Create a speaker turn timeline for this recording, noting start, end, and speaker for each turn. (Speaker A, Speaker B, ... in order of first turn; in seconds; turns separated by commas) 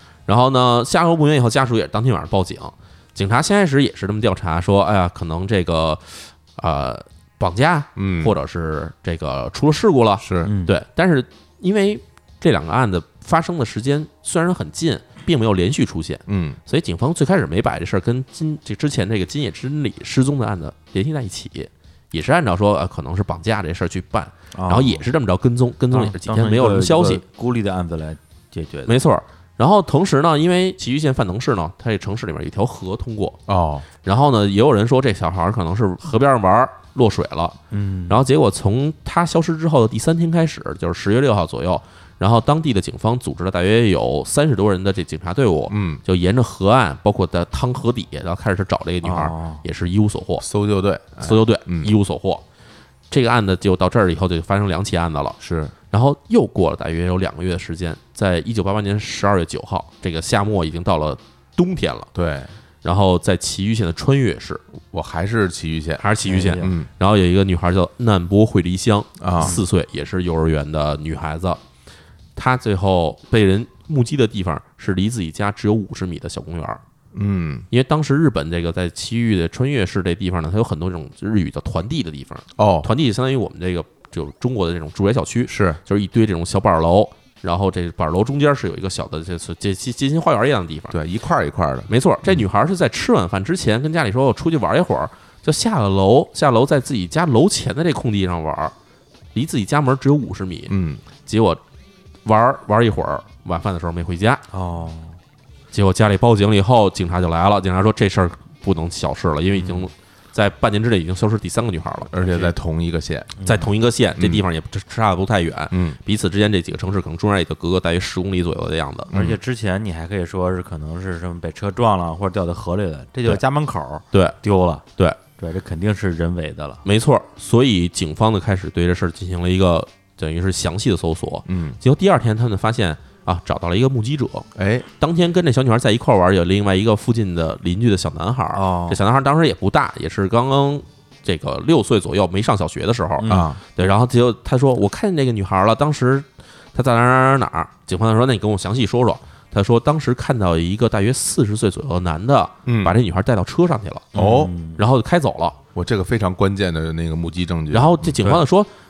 Speaker A: 0.3-27.2, Speaker B: 8.0-8.3, Speaker B: 10.2-10.5, Speaker C: 10.4-10.7, Speaker B: 16.3-16.6, Speaker C: 24.5-25.0, Speaker C: 25.9-28.9, Speaker A: 28.9-33.4, Speaker B: 33.5-33.9, Speaker A: 34.0-37.5, Speaker C: 37.7-38.2, Speaker A: 38.1-50.5, Speaker B: 45.7-46.0, Speaker C: 49.0-49.6, Speaker B: 50.4-51.9, Speaker A: 51.2-52.4, Speaker A: 53.1-55.4, Speaker B: 55.4-55.7, Speaker A: 55.9-62.1, Speaker B: 62.1-62.5, Speaker A: 62.8-64.6, Speaker B: 64.9-66.0, Speaker A: 66.0-71.6, Speaker C: 66.2-66.7, Speaker B: 66.6-66.9, Speaker B: 69.2-69.6, Speaker A: 72.3-76.8, Speaker B: 77.1-77.7, Speaker A: 77.7-91.0, Speaker B: 82.6-82.9, Speaker B: 85.5-85.8, Speaker B: 90.9-92.5, Speaker A: 91.9-98.7, Speaker A: 99.3-100.7, Speaker B: 100.7-101.0, Speaker A: 101.2-101.6, Speaker A: 102.2-104.4, Speaker C: 104.5-105.2, Speaker A: 105.7-112.1, Speaker C: 109.5-109.9, Speaker B: 112.1-113.3, Speaker C: 112.2-112.5, Speaker C: 113.4-113.7, Speaker A: 113.4-119.1, Speaker B: 114.2-114.4, Speaker B: 115.7-116.0, Speaker B: 119.1-119.4, Speaker C: 119.1-124.8, Speaker A: 124.1-124.4, Speaker C: 125.4-126.8, Speaker A: 126.8-134.5, Speaker B: 131.5-131.8, Speaker B: 134.6-134.9, Speaker A: 135.0-154.2, Speaker C: 138.5-139.0, Speaker C: 143.2-143.5, Speaker B: 143.3-143.6, Speaker B: 152.7-153.0, Speaker B: 154.1-154.5, Speaker C: 154.1-154.8, Speaker A: 154.7-155.6, Speaker B: 155.7-158.4, Speaker A: 157.7-158.7